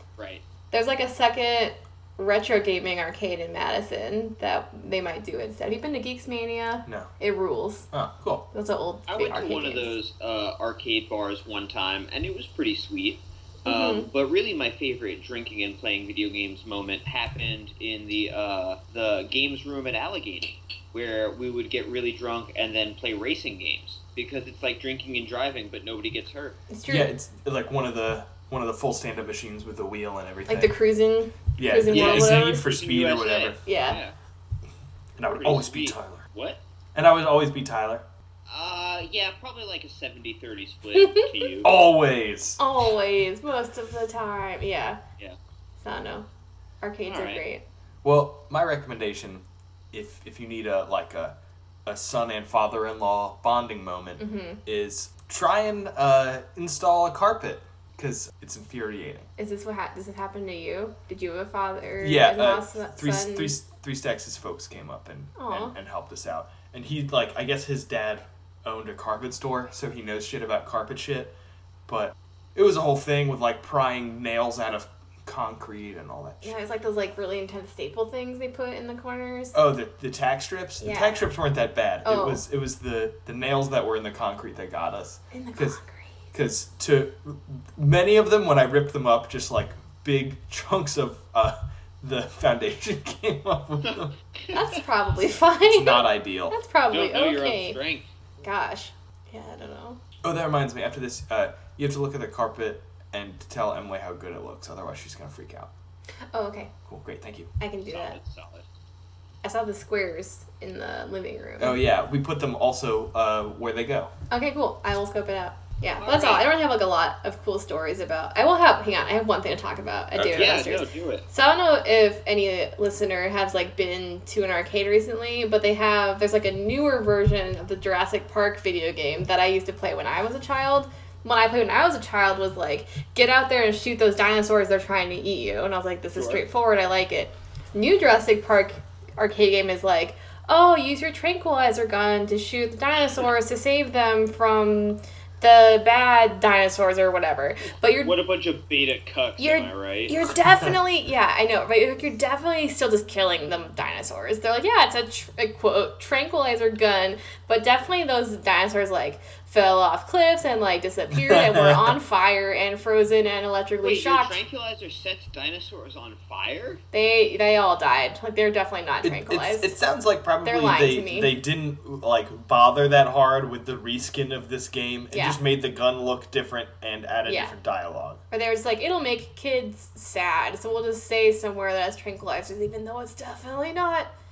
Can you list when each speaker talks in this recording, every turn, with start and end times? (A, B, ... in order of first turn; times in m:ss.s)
0:00.2-0:00.4 A
0:00.7-0:07.9 B
0:07.9-0:08.4 C
0:08.5-0:10.0 B
0:09.1-0:26.6 A
0:13.6-0:14.1 B
0:26.7-0:27.1 B
0:26.9-0:30.7 C
0:30.5-0:32.6 B
0:31.6-0:33.6 C
0:31.9-0:34.2 A
0:33.6-0:34.0 B
0:35.2-0:36.2 C
0:35.4-0:36.6 A
0:37.0-0:38.0 C
0:38.5-0:41.8 A
0:40.9-0:41.5 B
0:41.6-0:42.6 C
0:42.6-0:45.0 B
0:45.8-0:46.3 B
0:46.8-0:47.6 B
0:47.0-0:47.4 A
0:48.0-0:59.3 C
0:54.2-0:54.6 B
0:59.4-1:03.6 B
1:02.0-1:11.4 C
1:05.4-1:05.8 B
1:11.9-1:16.6 C
1:16.4-1:19.6 B
1:19.5-1:25.8 C
1:20.8-1:21.3 B
1:22.0-1:22.4 B
1:25.3-1:26.1 B
1:26.3-1:34.1 C
1:33.8-1:34.8 A
1:34.5-1:37.8 B
1:35.7-1:36.6 C
1:36.9-1:38.1 A
1:38.4-1:40.0 B
1:40.2-1:45.7 C
1:46.3-1:46.7 B
1:46.9-1:47.5 C
1:47.6-1:48.2 B
1:47.9-1:48.7 A
1:49.4-1:51.8 B
1:51.6-1:54.1 C
1:54.3-2:28.2 B
1:56.0-1:56.5 A
2:00.2-2:00.5 C
2:00.3-2:01.3 A
2:16.1-2:16.4 A
2:28.0-2:30.2 A
2:29.4-2:44.4 B
2:41.1-2:41.9 C
2:43.8-2:46.8 A
2:46.9-2:49.8 B
2:49.0-2:58.2 C
2:50.4-2:51.4 B
2:55.1-2:55.4 B
2:57.3-2:57.5 B
2:58.3-3:04.1 B